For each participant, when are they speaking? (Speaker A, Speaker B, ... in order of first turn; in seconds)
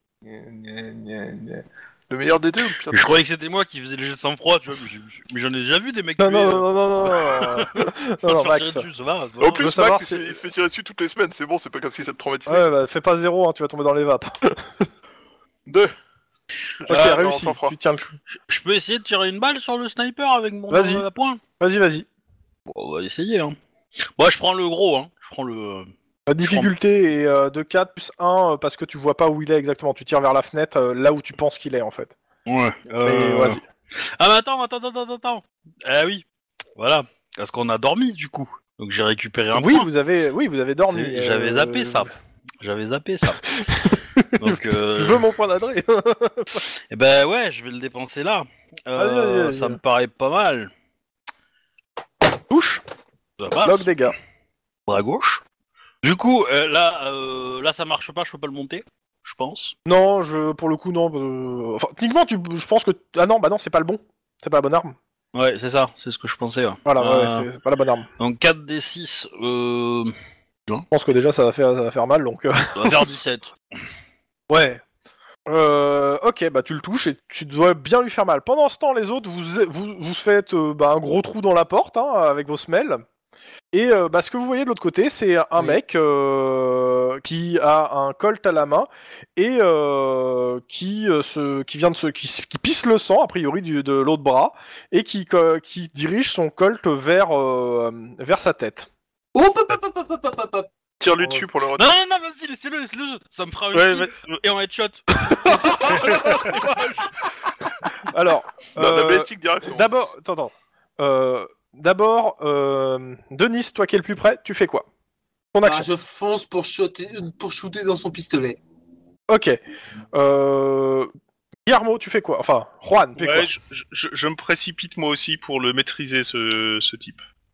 Speaker A: 0.2-3.2, 9.4-12.6, 15.7-15.9, 16.9-17.7, 101.0-101.9, 105.8-107.0, 108.7-109.8
Speaker B: 2.9-7.7, 8.2-9.7, 18.5-21.4, 22.7-23.6, 24.2-25.9, 26.4-26.7, 32.5-36.2, 36.8-39.9, 40.9-43.4, 44.4-45.2, 46.7-50.7, 53.4-53.9, 54.9-55.4, 56.0-59.7, 65.3-67.5, 68.2-70.1, 72.7-73.5, 101.8-105.7
Speaker C: 6.2-8.9, 9.6-10.4, 12.5-14.9, 16.9-18.2, 20.7-21.1, 21.6-22.1, 26.3-32.1, 33.0-33.6, 39.5-42.1, 43.5-46.6, 49.0-49.8, 52.5-52.8, 53.6-54.1, 59.9-65.0, 66.8-68.1, 70.9-73.1, 74.5-74.8, 75.5-83.0, 83.7-98.9, 105.3-107.0, 108.0-114.8, 115.5-115.9, 119.3-119.6, 120.1-121.1, 121.7-123.5
Speaker D: 99.3-101.5, 115.6-118.6
Speaker E: 103.7-104.4, 123.2-127.2